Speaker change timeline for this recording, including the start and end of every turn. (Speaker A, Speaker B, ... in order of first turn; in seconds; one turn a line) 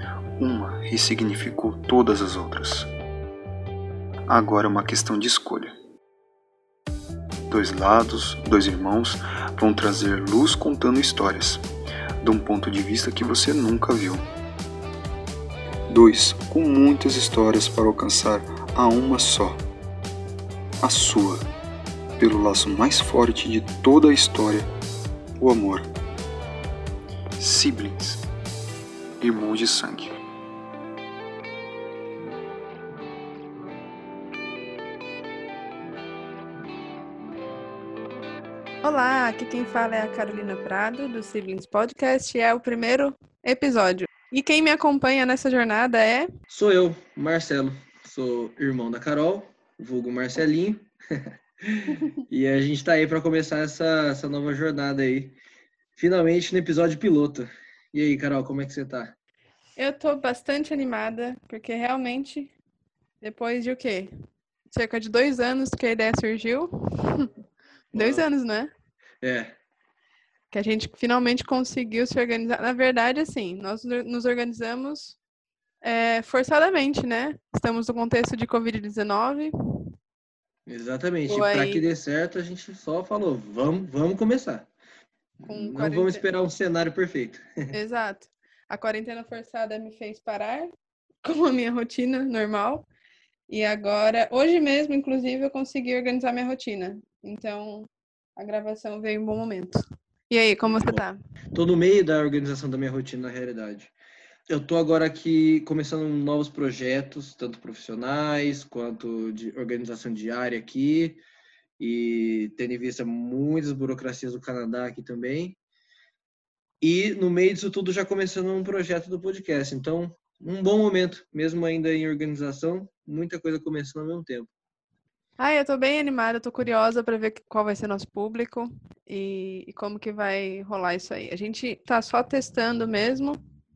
Speaker A: 0.4-2.9
Speaker A: 4.3-5.7
Speaker A: 7.5-11.6
Speaker A: 12.2-14.2
Speaker A: 15.9-19.6
Speaker A: 20.8-21.4
Speaker A: 22.2-24.7
Speaker A: 25.4-25.9
Speaker A: 27.4-28.2
Speaker A: 29.2-30.1
Speaker B: 38.8-46.3
Speaker C: 46.5-55.4
Speaker C: 56.0-59.1
Speaker B: 59.8-62.5
Speaker B: 63.2-64.1
Speaker B: 64.7-67.3
Speaker C: 67.9-68.3
Speaker B: 68.0-68.7
Speaker C: 69.2-69.5
Speaker B: 70.5-75.2
Speaker B: 75.8-79.5
Speaker C: 80.7-84.7
Speaker B: 81.3-81.9
Speaker C: 85.4-87.7
Speaker B: 85.5-86.2
Speaker B: 87.7-90.7
Speaker B: 91.2-92.9
Speaker B: 93.5-101.2
Speaker C: 100.7-101.0
Speaker C: 101.5-103.9
Speaker C: 104.5-111.2
Speaker C: 111.8-115.6
Speaker C: 116.8-124.5
Speaker B: 125.4-133.4